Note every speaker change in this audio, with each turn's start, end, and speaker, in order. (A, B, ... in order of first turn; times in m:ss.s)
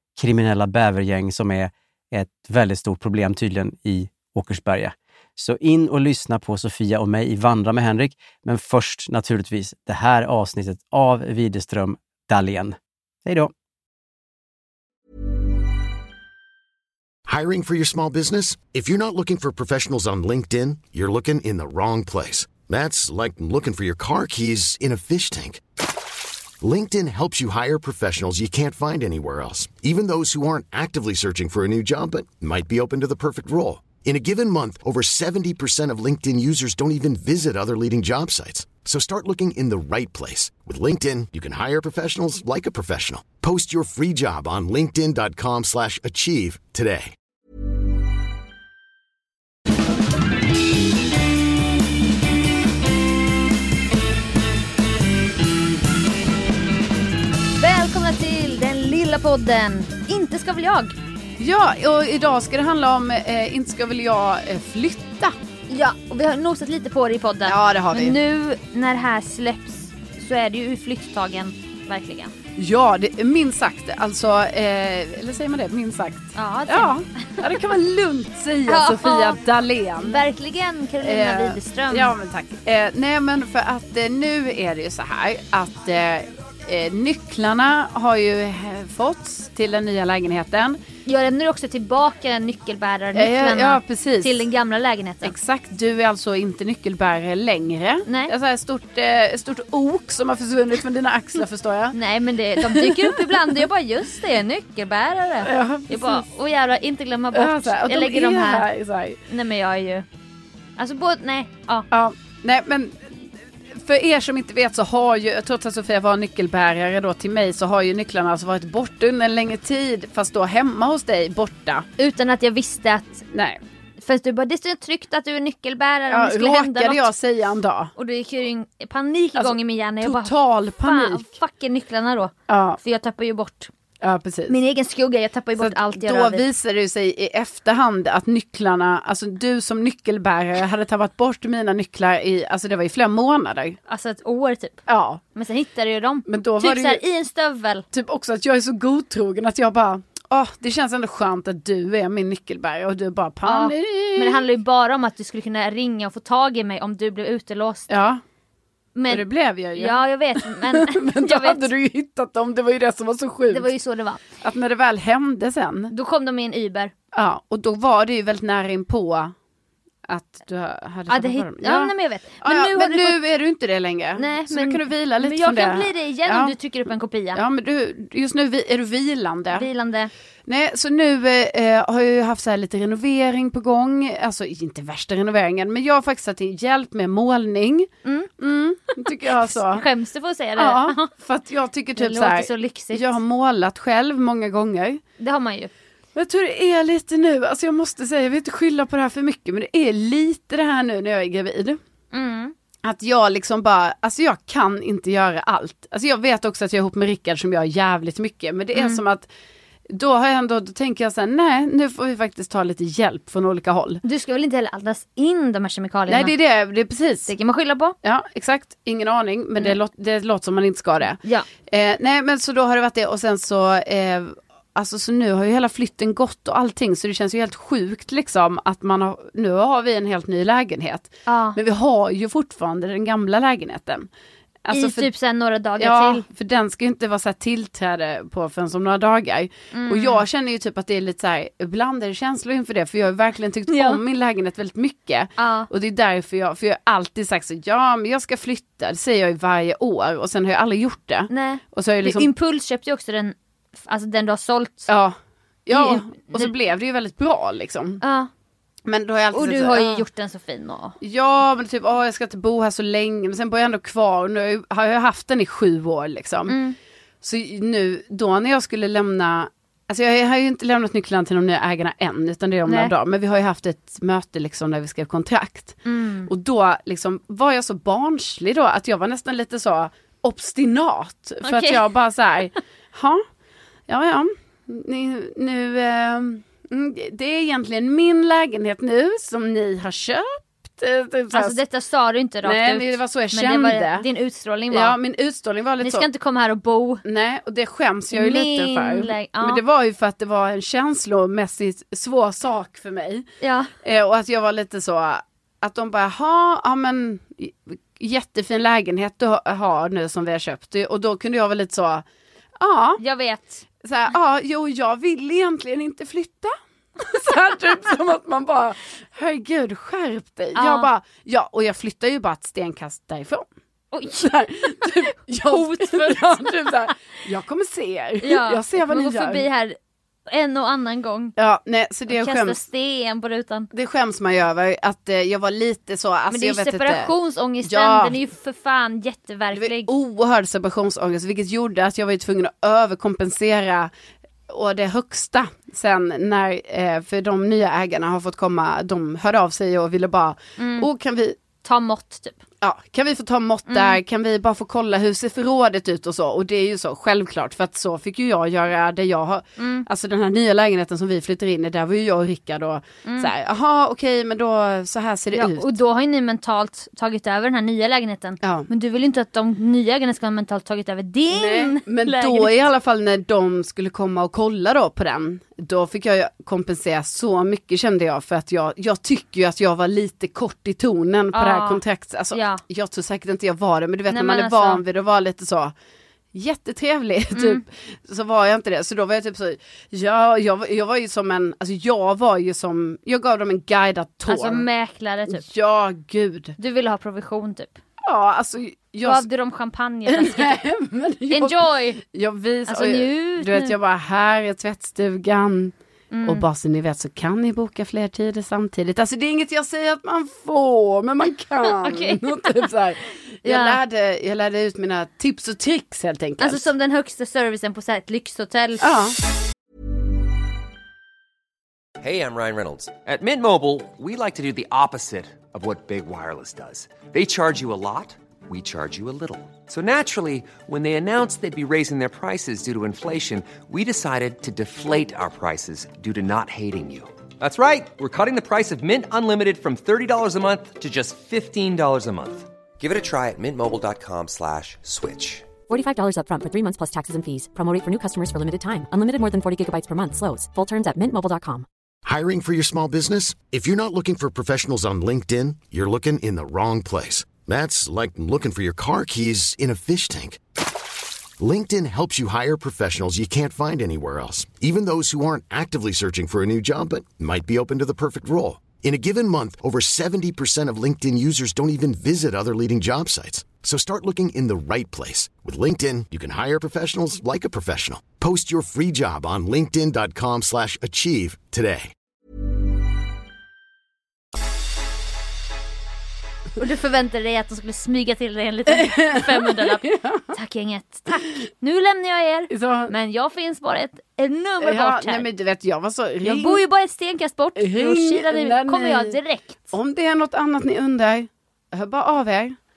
0:00.2-0:13.5 A
0:17.3-0:25.6 B
0:26.6-0:47.1 B
0:57.6-1:00.9 C
1:01.4-1:05.3 D
1:05.7-1:12.3 C
1:07.4-1:08.2 D
1:12.6-1:20.2 D
1:16.3-1:17.4 C
1:18.6-1:19.4 C
1:20.0-1:22.1 C
1:21.0-1:30.8 D
1:31.1-1:35.4 C
1:33.1-1:34.5 D
1:35.2-1:42.0 D
1:38.0-1:38.3 C
1:41.9-1:48.7 C
1:42.5-1:43.6 D
1:45.4-1:46.2 D
1:47.3-1:49.2 D
1:49.3-1:50.0 C
1:50.8-1:51.9 C
1:51.9-1:53.1 D
1:53.8-2:01.8 D
2:02.0-2:03.2 C
2:03.3-2:03.6 D
2:04.0-2:07.1 C
2:06.1-2:07.9 D
2:08.0-2:13.7 C
2:09.4-2:11.3 D
2:12.5-2:12.8 D
2:14.0-2:14.6 D
2:14.5-2:16.4 C
2:15.6-2:23.8 D
2:23.9-2:24.8 C
2:24.9-2:25.2 D
2:25.3-2:27.8 C
2:26.3-2:27.0 D
2:27.9-2:34.5 D
2:33.4-2:37.9 C
2:37.9-2:38.2 D
2:39.0-2:41.7 C
2:39.1-2:43.7 D
2:43.5-2:44.2 C
2:44.4-2:45.9 D
2:45.9-2:46.9 C
2:47.1-2:49.3 D
2:50.0-2:56.6 D
2:51.1-2:53.2 C
2:54.2-2:57.4 C
2:57.3-2:59.7 D
2:59.5-3:00.1 C
3:00.5-3:09.8 D
3:08.0-3:08.3 C
3:09.3-3:11.1 C
3:10.6-3:15.0 D
3:12.0-3:13.1 C
3:15.2-3:15.7 C
3:16.1-3:21.8 D
3:22.1-3:22.5 C
3:22.8-3:29.3 D
3:28.7-3:29.0 C
3:29.9-3:34.0 D
3:34.0-3:36.3 C
3:36.1-3:37.3 D
3:37.2-3:37.9 C
3:38.0-3:54.1 D
3:51.2-3:51.6 C
3:54.6-3:55.1 D
3:54.7-3:56.2 C
3:55.8-4:12.3 D
3:59.7-4:00.2 C
4:03.7-4:04.0 C
4:05.4-4:05.7 C
4:11.3-4:14.9 C
4:14.9-4:15.1 D
4:15.6-4:18.0 D
4:15.7-4:16.5 C
4:18.0-4:18.3 C
4:18.8-4:20.0 D
4:19.3-4:21.0 C
4:21.0-4:26.6 D
4:26.5-4:26.8 C
4:27.2-4:43.2 D
4:32.7-4:32.9 C
4:35.8-4:36.3 C
4:41.4-4:41.9 C
4:43.9-4:51.6 D
4:51.3-4:55.0 C
4:52.4-4:54.1 D
4:54.7-4:56.1 D
4:55.8-4:57.0 C
4:57.0-5:03.2 D
4:58.1-4:59.6 C
5:03.4-5:03.7 C
5:03.8-5:12.0 D
5:12.6-5:13.0 D
5:13.0-5:13.6 C
5:13.8-5:23.4 D
5:20.5-5:20.9 C
5:23.9-5:24.4 C
5:24.0-5:29.4 D
5:25.4-5:26.9 C
5:28.2-5:31.4 C
5:31.4-5:32.6 D
5:32.1-5:33.7 C
5:33.7-5:38.2 D
5:36.3-5:39.9 C
5:39.5-5:43.9 D
5:44.5-5:51.4 D
5:50.6-5:50.9 C
5:51.6-5:52.4 C
5:52.6-6:05.8 D
5:53.7-5:54.0 C
5:59.6-5:59.9 C
6:03.0-6:03.3 C
6:05.3-6:12.6 C
6:08.4-6:08.7 D
6:11.3-6:25.7 D
6:21.3-6:22.6 C
6:24.1-6:24.8 C
6:26.3-6:34.7 D
6:27.3-6:27.6 C
6:34.2-6:35.4 C
6:35.3-6:36.6 D
6:36.6-6:37.8 C
6:38.0-6:39.3 D
6:39.0-6:40.6 C
6:40.1-6:45.7 D
6:41.3-6:42.0 C
6:42.7-6:43.7 C
6:46.1-6:46.4 C
6:46.2-6:56.7 D
6:51.7-6:52.7 C
6:53.4-6:53.8 C
6:56.4-6:59.0 C
6:58.8-6:59.2 D
7:02.0-7:25.5 E
7:25.6-7:31.6 F
7:32.0-7:40.4 B
7:41.4-8:01.9 B
8:06.6-8:15.3 C
8:09.8-8:10.2 D
8:12.5-8:12.9 D
8:14.6-8:16.6 D
8:16.2-8:19.7 C
8:17.6-8:19.2 D
8:19.7-8:22.6 D